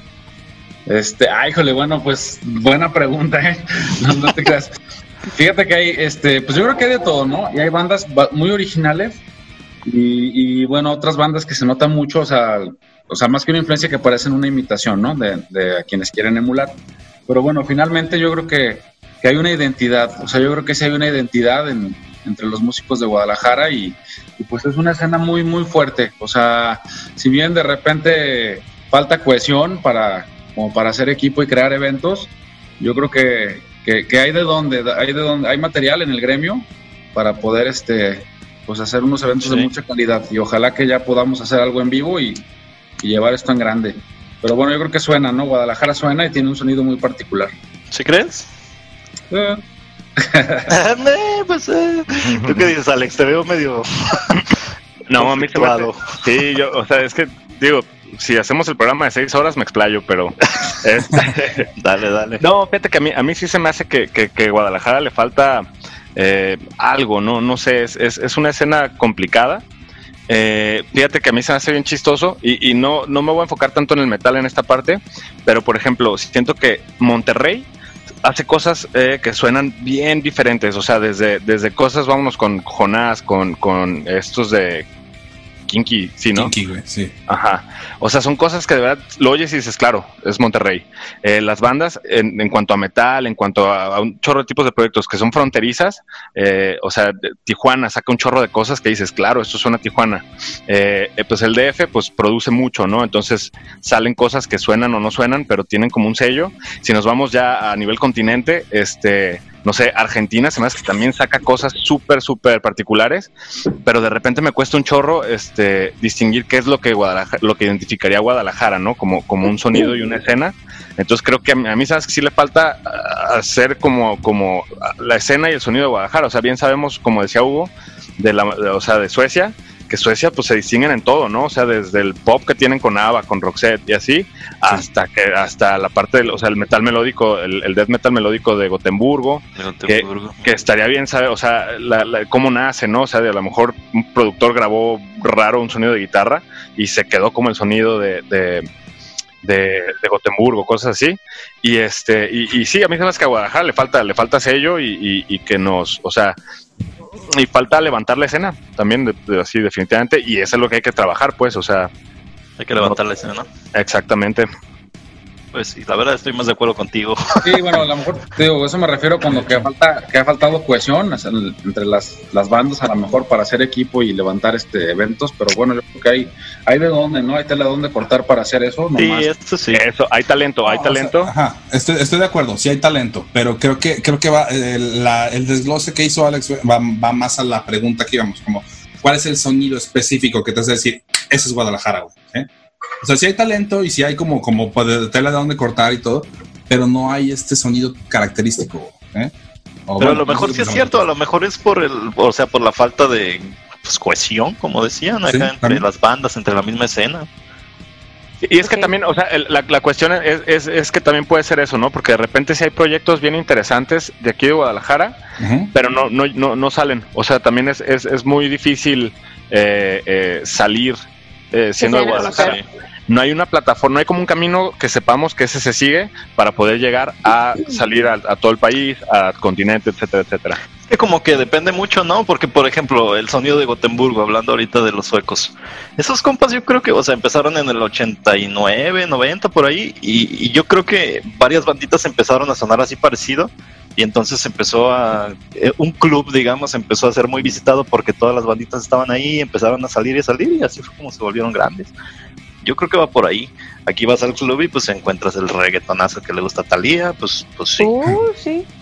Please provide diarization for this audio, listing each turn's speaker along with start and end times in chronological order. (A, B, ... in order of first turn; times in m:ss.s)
0:00.9-0:04.7 A
0:05.3-0:09.2 A
0:09.8-0:16.7 A
0:17.3-0:42.4 A
0:39.4-0:39.7 B
0:43.0-0:47.5 A
0:47.9-0:48.5 B
0:49.3-0:49.6 A
0:50.2-0:50.8 A
0:50.7-0:54.5 B
0:52.4-0:52.7 C
0:55.1-1:01.7 C
0:55.2-0:56.1 B
1:01.8-1:02.4 B
1:02.4-1:09.6 C
1:10.3-1:17.7 C
1:18.2-1:24.8 C
1:25.7-1:26.5 C
1:26.3-1:27.1 D
1:27.3-1:53.3 C
1:53.8-2:28.7 C
2:19.6-2:20.4 B
2:29.4-2:36.4 C
2:37.3-2:41.9 C
2:42.6-2:43.5 B
2:43.7-2:44.5 C
2:45.5-2:47.8 B
2:47.4-2:59.3 A
2:49.3-2:49.7 D
2:58.9-2:59.8 B
2:59.7-3:01.3 C
3:00.6-3:12.5 D
3:13.0-3:19.3 D
3:19.9-3:21.0 D
3:20.0-3:27.3 B
3:25.3-3:25.8 D
3:28.4-3:35.2 C
3:28.6-3:28.9 E
3:35.4-3:35.7 D
3:35.7-3:41.0 C
3:41.5-3:50.6 C
3:41.8-3:42.6 E
3:42.1-3:42.6 B
3:50.9-4:11.9 B
4:12.6-4:17.9 B
4:17.8-4:18.6 E